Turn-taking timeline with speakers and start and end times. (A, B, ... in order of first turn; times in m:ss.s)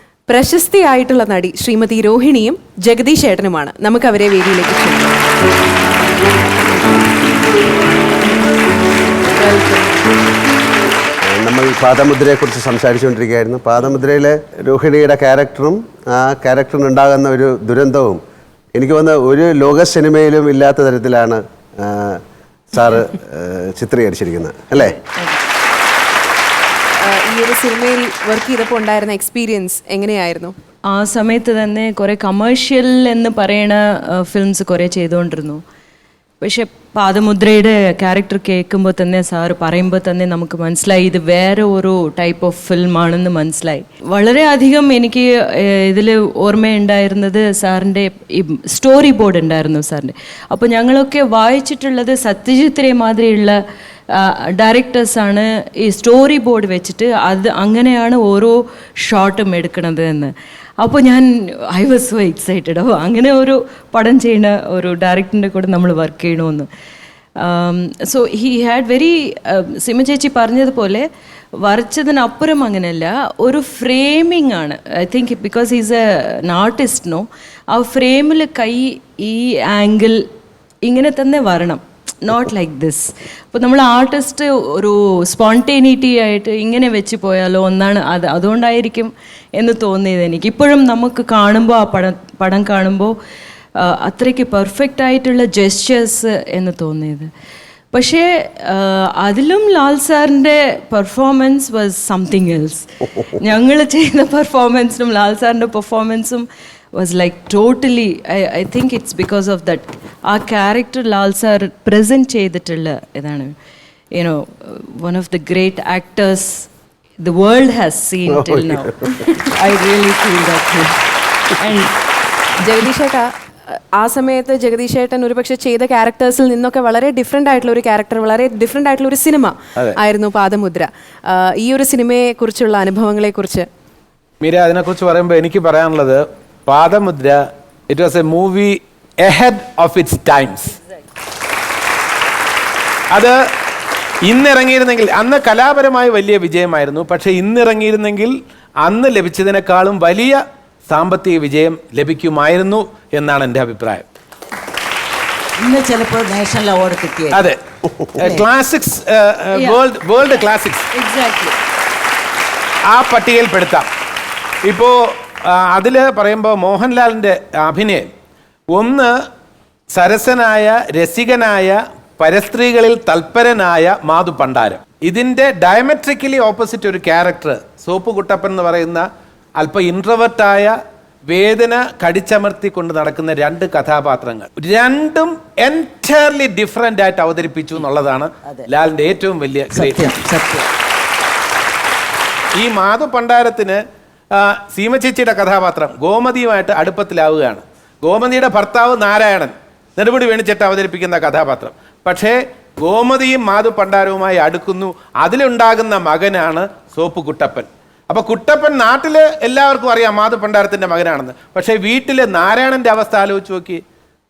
0:00.3-0:05.1 A
0:06.4-0:07.1 A
0:09.3-0:09.9 A
0:11.2-0:18.2 B
0:18.7-0:22.2 B
0:22.7-0:25.0 B
0:24.8-0:25.4 C
0:27.0-0:30.5 A
0:30.9-0:35.6 C
0:36.4-0:53.6 C
0:54.1-1:06.7 C
1:07.4-1:11.0 C
1:11.6-1:20.2 C
1:20.8-1:33.1 C
1:33.8-1:37.3 C
1:37.9-1:53.5 C
1:54.1-1:56.7 C
1:57.2-2:00.9 C
1:58.3-1:59.3 B
2:01.5-2:01.9 C
2:02.6-2:13.7 A
2:14.4-2:20.7 D
2:24.2-2:34.0 D
2:35.6-2:37.4 E
2:37.3-2:37.6 D
2:38.1-2:40.9 D
2:40.9-2:41.5 C
2:42.9-2:43.9 D
2:44.6-2:48.1 D
2:48.7-2:49.1 D
2:49.9-2:59.0 D
2:59.6-3:00.7 D
3:01.3-3:10.0 D
3:09.7-3:10.6 E
3:12.6-3:13.8 D
3:14.3-3:33.8 D